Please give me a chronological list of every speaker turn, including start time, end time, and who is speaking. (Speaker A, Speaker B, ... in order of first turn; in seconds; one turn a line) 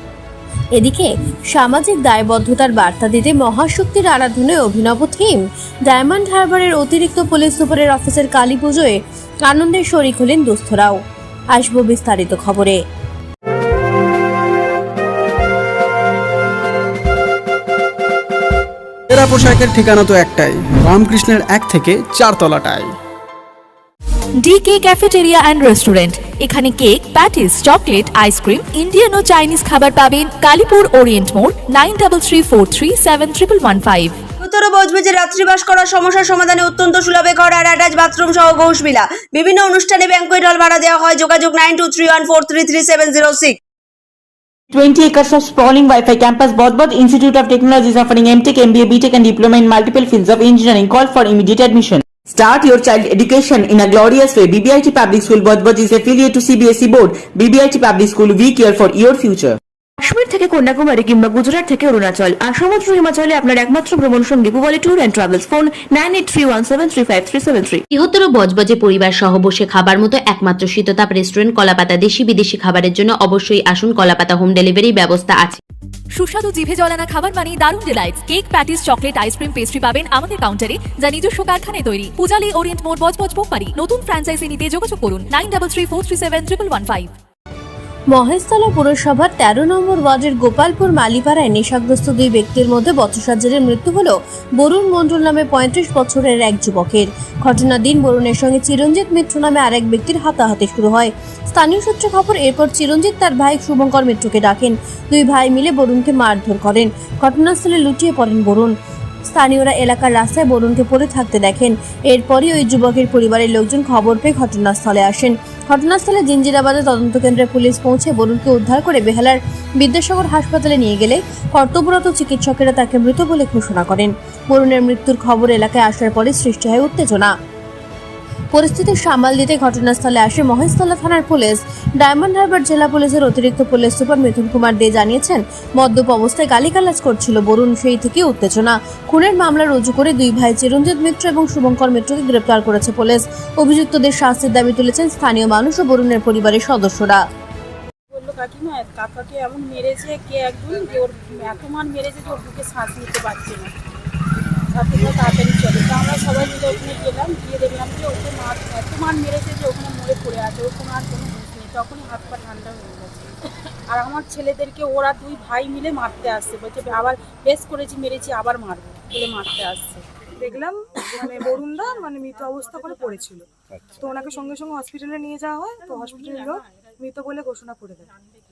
Speaker A: 0.8-11.0
Speaker A: 11.5-12.8
Speaker B: 19.1-22.9
Speaker C: 24.4-34.1
Speaker D: 34.4-43.5
Speaker E: 44.8-50.1
Speaker E: 50.9-51.8
Speaker E: 54.0-59.3
Speaker F: 60.1-67.8
Speaker G: 67.9-75.6
Speaker C: 76.1-87.1
Speaker A: 88.1-108.7
Speaker A: 109.3-127.3
Speaker A: 128.5-147.2
Speaker H: 148.1-153.8
Speaker H: 154.7-170.1
Speaker I: 170.4-178.1
Speaker H: 173.0-173.3
Speaker H: 175.8-176.5